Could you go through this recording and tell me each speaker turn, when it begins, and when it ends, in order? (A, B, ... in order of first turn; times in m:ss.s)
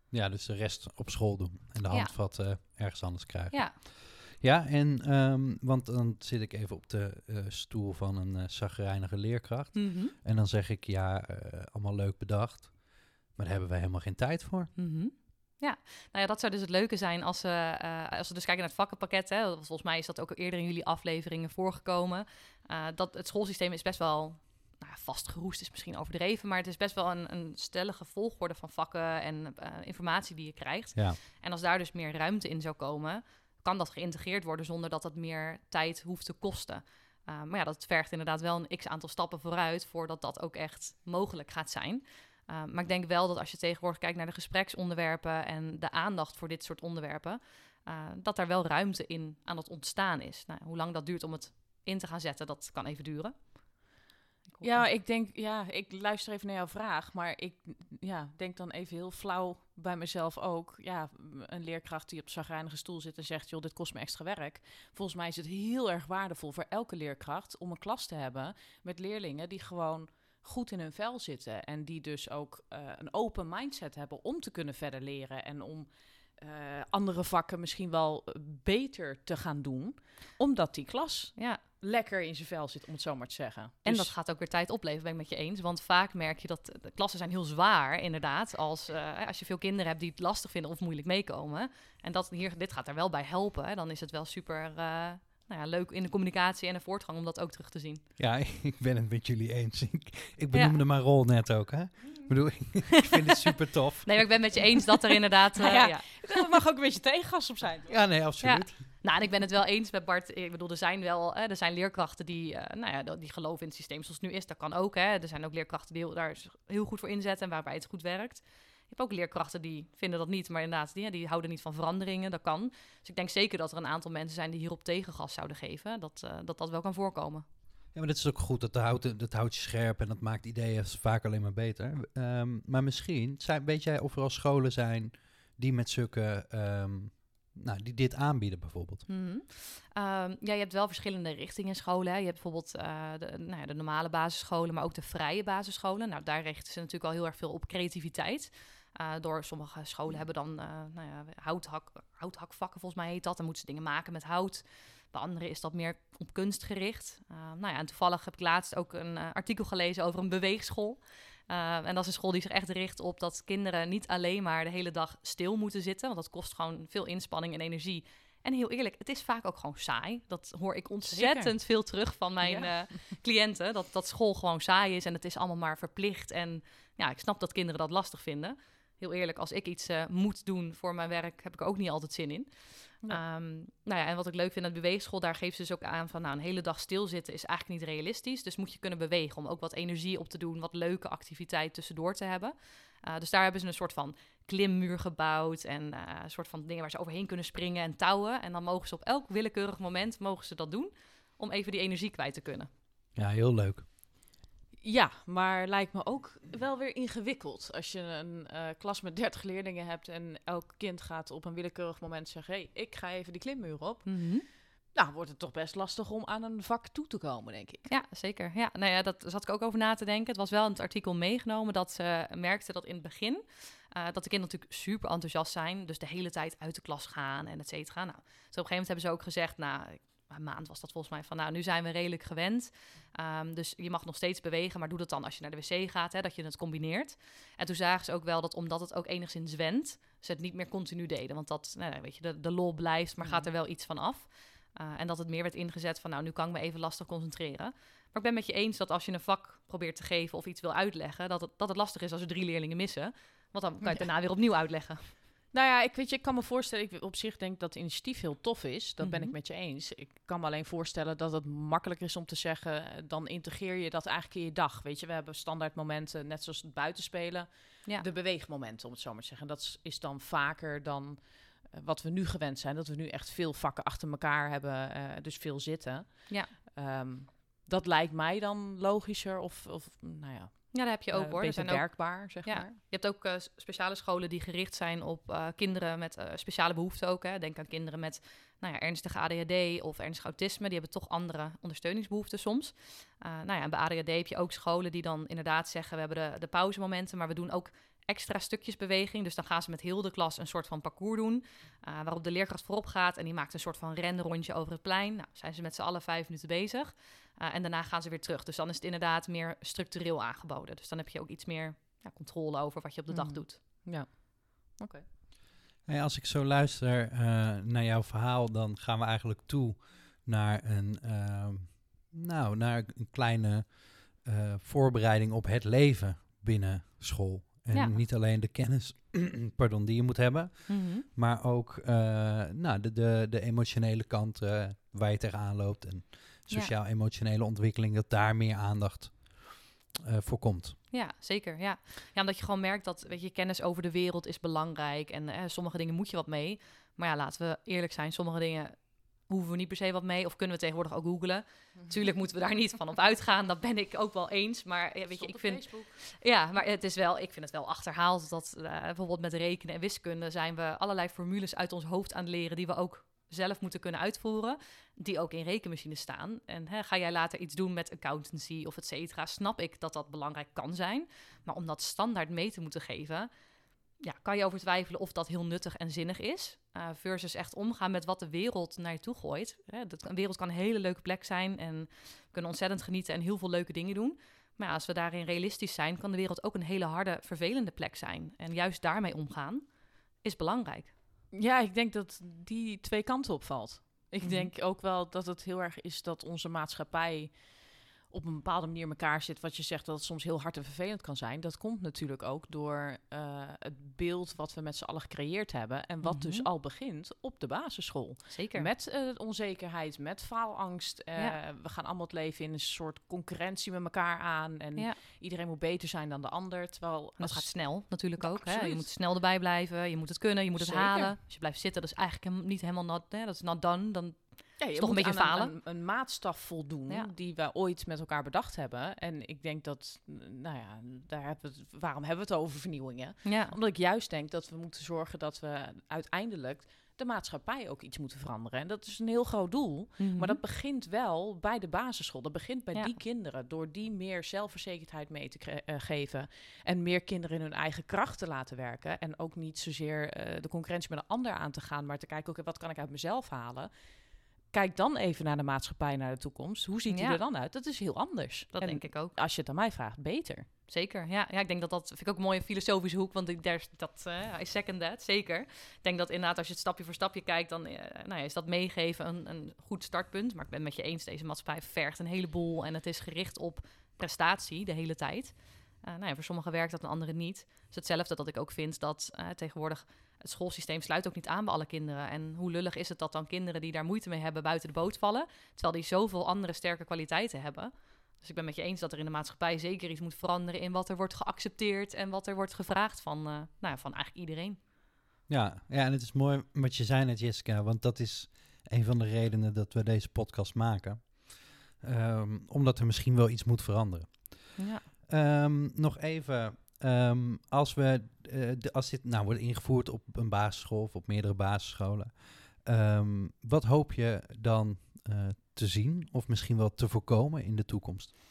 0:00.1-0:14.7 A
0:03.5-0:03.8 B
0:09.7-0:10.1 B
0:14.8-0:53.9 B
0:30.9-0:31.2 A
0:54.5-0:54.9 B
0:54.6-1:24.1 C
1:23.8-1:38.0 B
1:38.2-1:44.7 A
1:40.5-1:40.8 B
1:44.0-1:46.4 B
1:45.6-1:48.0 C
1:47.9-1:48.8 A
1:48.4-2:07.4 B
2:07.9-2:19.0 A
2:19.1-3:22.7 B
2:51.1-2:51.7 C
2:52.4-2:53.0 C
3:23.1-3:23.9 A
3:24.8-3:37.9 C
3:34.0-3:34.4 B
3:37.9-4:15.1 B
4:03.2-4:03.5 C
4:13.8-4:14.1 C
4:15.5-4:42.8 C
4:19.0-4:19.4 B
4:40.7-5:13.6 B
5:13.1-5:15.0 C
5:15.8-5:40.8 A
5:27.7-5:28.0 B
5:30.7-5:31.0 B
5:40.9-6:13.3 B
5:55.1-5:56.0 C
6:14.0-6:30.9 B
6:31.3-6:58.9 C
6:34.2-6:34.5 B
6:46.0-6:46.5 B
6:48.3-6:48.7 B
6:57.2-7:05.5 B
7:00.6-7:01.2 C
7:04.6-7:40.5 C
7:13.2-7:13.5 B
7:20.0-7:20.4 B
7:36.9-7:37.2 B
7:38.5-7:39.1 B
7:40.7-8:14.6 B
8:15.3-8:38.1 A
8:24.6-8:24.8 B